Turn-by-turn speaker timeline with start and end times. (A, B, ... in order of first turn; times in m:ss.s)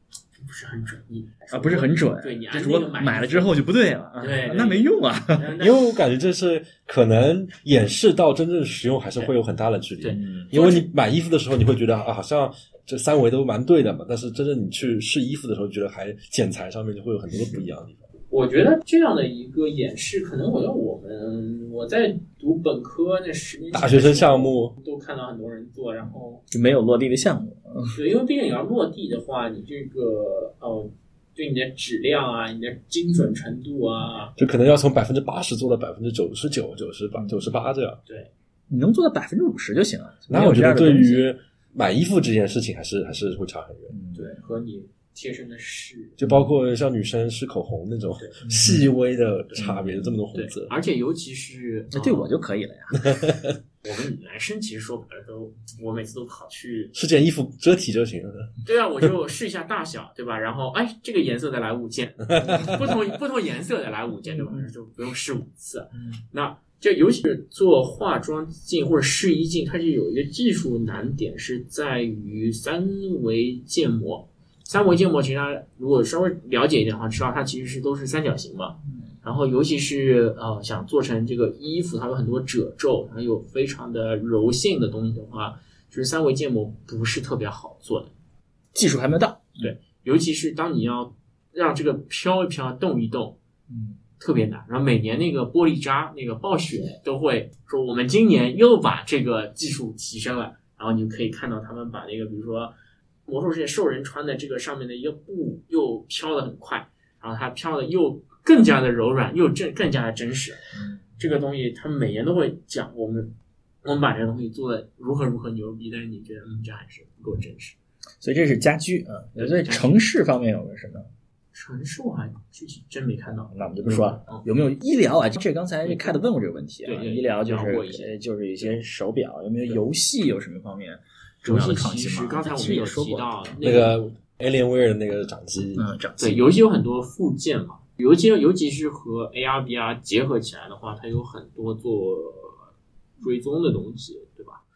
0:00.4-0:03.5 A
0:01.5-0:05.5 B
0:04.2-0:05.8 A
0:05.6-0:18.0 C
0:10.0-0:10.9 A
0:10.2-0:10.5 B
0:18.3-0:26.4 A
0:23.7-0:24.7 C
0:26.5-0:28.0 B
0:27.9-0:34.3 A
0:34.4-0:38.0 C
0:37.2-0:37.5 B
0:38.7-0:41.2 B
0:40.3-0:43.9 C
0:43.9-0:44.4 B
0:44.1-0:46.2 A
0:46.2-0:50.7 C
0:48.2-0:48.5 A
0:48.5-0:48.9 B
0:49.6-0:50.2 B
0:50.3-0:52.3 A
0:51.9-0:53.2 B
0:53.0-0:53.3 C
0:53.8-0:56.9 A
0:56.9-0:58.5 C
0:58.6-1:28.1 A
1:02.3-1:02.9 C
1:04.3-1:04.6 B
1:28.7-1:29.7 B
1:29.6-1:33.4 A
1:33.7-1:34.0 B
1:34.2-1:42.7 A
1:43.2-1:50.6 A
1:50.7-1:51.0 B
1:51.2-1:53.3 A
1:53.8-1:57.8 A
1:58.2-2:01.1 B
1:59.4-2:00.0 A
2:01.5-2:04.4 A
2:03.5-2:13.5 B
2:05.8-2:06.2 A
2:06.8-2:08.7 A
2:11.4-2:14.0 A
2:13.6-2:15.8 C
2:15.8-2:16.4 B
2:16.2-2:22.7 A
2:23.2-2:24.6 A